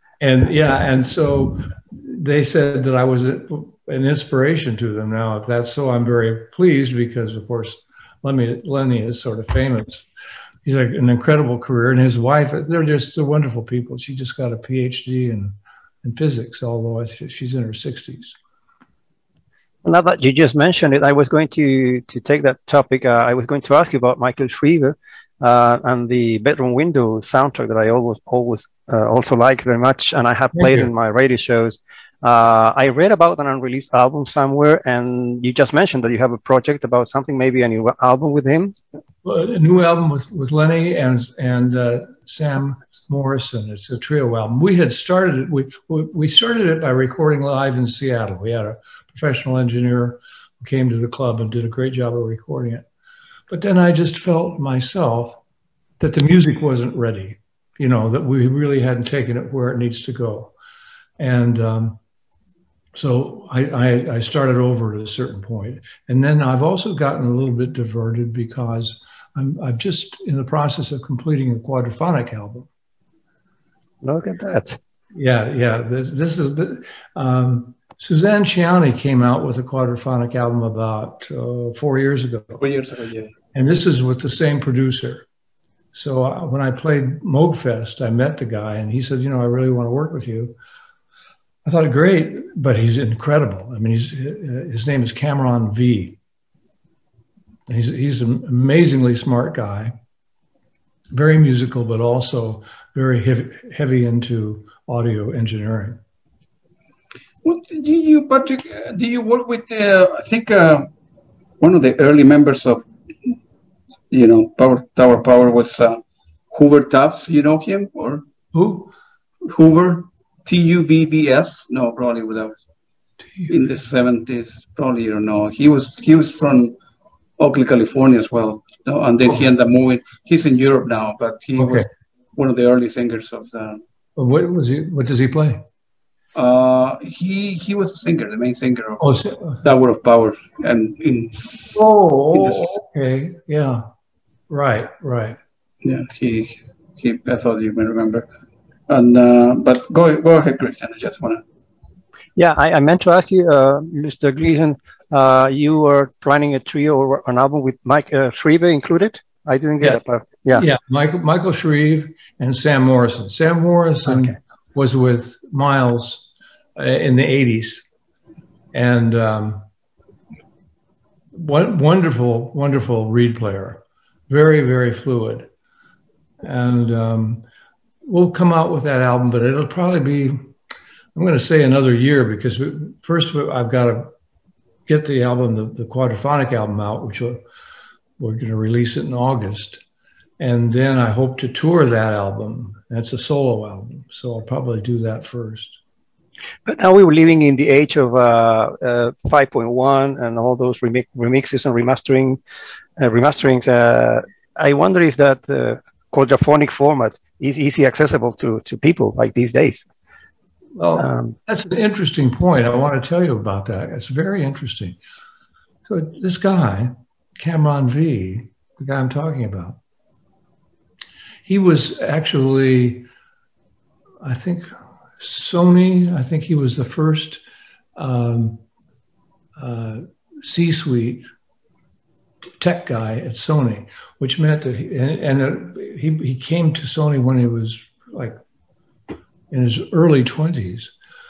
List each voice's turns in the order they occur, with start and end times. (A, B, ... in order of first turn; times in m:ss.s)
0:00.2-0:10.0 A
0:10.6-0:18.4 A
0:19.8-0:38.8 B
0:30.5-0:30.9 A
0:39.2-0:52.8 A
0:53.5-0:55.4 A
0:56.0-1:00.5 A
1:01.2-1:02.0 A
1:02.9-1:12.7 A
1:14.0-1:14.8 B
1:15.1-1:22.6 A
1:22.6-1:23.3 C
1:23.5-1:25.2 A
1:25.9-1:30.5 A
1:31.6-1:36.2 A
1:37.7-1:39.9 A
1:41.1-1:46.0 A
1:47.4-1:50.9 C
1:51.6-1:53.3 C
1:54.1-1:58.2 C
1:58.5-1:58.9 A
1:59.4-2:02.6 C
2:03.5-2:06.7 C
2:07.4-2:13.8 C
2:11.6-2:11.8 A
2:14.2-2:15.6 A
2:16.3-2:22.7 C
2:19.0-2:19.6 A
2:21.7-2:23.8 A
2:24.5-2:25.4 A
2:25.8-2:28.3 C
2:28.9-2:31.4 C
2:32.4-2:40.6 B
2:40.5-2:47.8 A
2:44.1-2:44.3 B
2:48.7-2:49.6 A
2:51.3-2:55.5 A
2:56.4-2:57.4 A
2:58.0-3:00.4 A
3:01.1-3:04.1 A
3:04.9-3:07.4 A
3:08.2-3:09.8 A
3:10.4-3:15.8 A
3:16.6-3:22.4 B
3:23.0-3:29.9 B
3:30.8-3:35.0 A
3:31.0-3:31.4 B
3:35.8-3:39.8 A
3:41.4-3:43.1 A
3:44.2-3:47.4 A
3:48.0-3:48.6 A
3:49.6-3:51.2 A
3:52.6-3:58.4 A
3:59.5-4:00.9 A